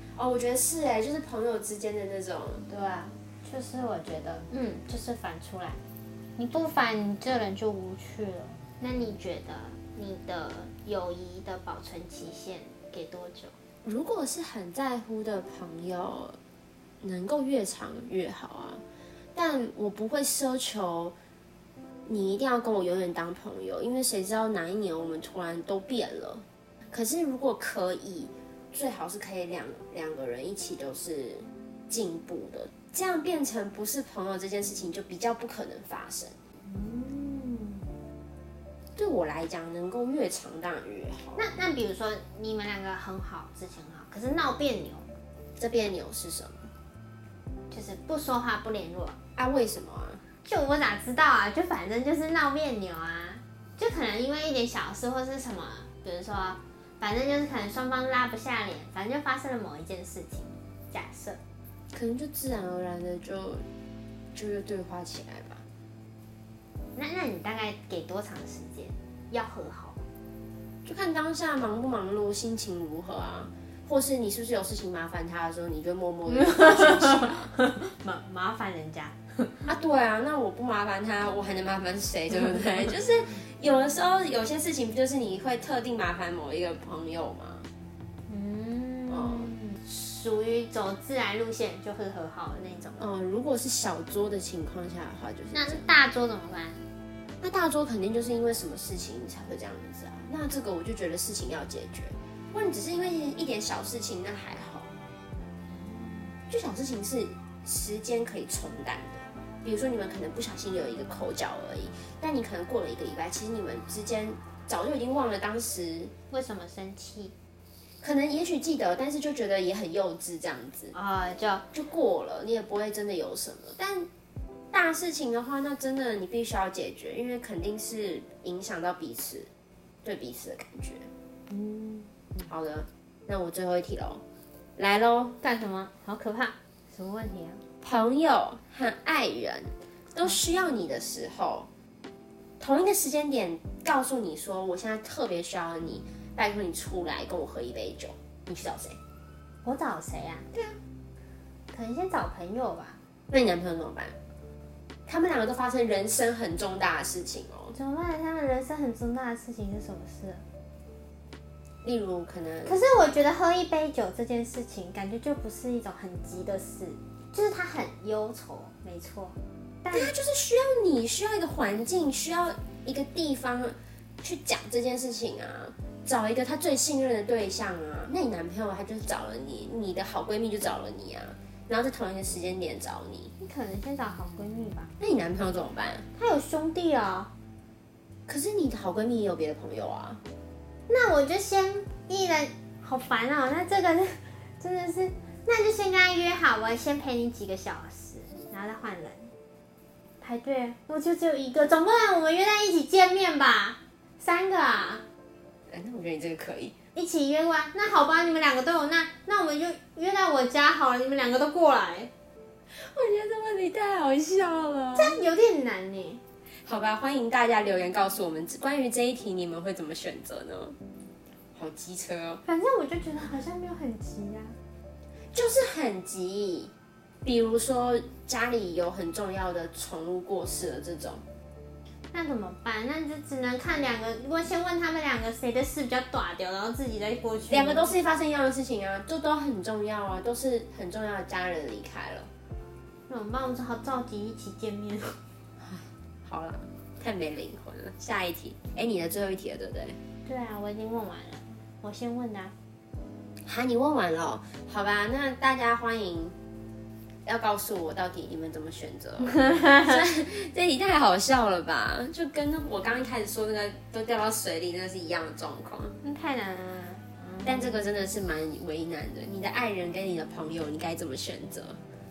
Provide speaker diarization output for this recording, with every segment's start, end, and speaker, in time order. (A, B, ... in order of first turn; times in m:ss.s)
0:00.2-0:02.6 A
0:02.7-0:05.8 B
0:06.4-0:13.6 B
0:13.8-0:16.4 A
0:17.0-0:18.8 A
0:19.3-0:21.1 A
0:22.0-0:36.4 A
0:36.6-0:37.9 B
0:39.0-0:41.5 A
0:41.4-0:45.1 B
0:45.6-0:46.7 A
0:47.7-0:49.2 B
0:49.4-0:50.2 A
0:50.4-1:01.4 B
1:01.9-1:03.6 A
1:04.3-1:05.6 A
1:06.9-1:10.0 B
1:10.8-1:17.5 A
1:16.3-1:19.6 B
1:19.6-1:27.7 A
1:28.3-1:33.0 B
1:29.1-1:29.5 A
1:33.0-1:35.9 A
1:35.5-1:36.9 B
1:37.4-1:44.9 A
1:45.7-1:46.4 B
1:46.5-1:56.1 A
1:56.3-1:57.3 B
1:58.0-2:00.9 A
2:00.9-2:01.6 B
2:01.7-2:03.8 A
2:03.8-2:04.1 B
2:04.7-2:09.5 A
2:10.0-2:11.1 A
2:11.5-2:12.4 B
2:12.4-2:14.2 A
2:14.8-2:15.4 A
2:15.4-2:17.6 B
2:17.8-2:21.7 A
2:22.6-2:29.0 A
2:29.6-2:30.5 B
2:31.7-2:33.0 B
2:33.3-2:34.1 A
2:35.0-2:37.8 A
2:37.7-2:40.4 B
2:41.8-2:42.8 A
2:42.6-2:50.1 B
2:49.9-3:03.3 A
3:03.4-3:04.9 B
3:05.0-3:06.1 A
3:06.2-3:07.3 B
3:08.3-3:10.2 A
3:10.9-3:19.3 B
3:20.2-3:25.0 B
3:25.7-3:26.7 A
3:26.9-3:32.1 B
3:32.7-3:35.2 A
3:34.9-3:36.2 B
3:36.6-3:40.8 A
3:41.5-3:42.4 A
3:42.4-3:44.6 B
3:45.3-3:46.7 A
3:47.2-3:51.2 A
3:52.1-3:57.9 B
3:57.5-4:02.3 A
4:03.1-4:05.2 B
4:05.6-4:10.0 A
4:10.2-4:12.5 B
4:13.4-4:16.4 A
4:17.2-4:26.0 A
4:19.5-4:19.8 B
4:26.0-4:27.9 B
4:27.4-4:31.8 A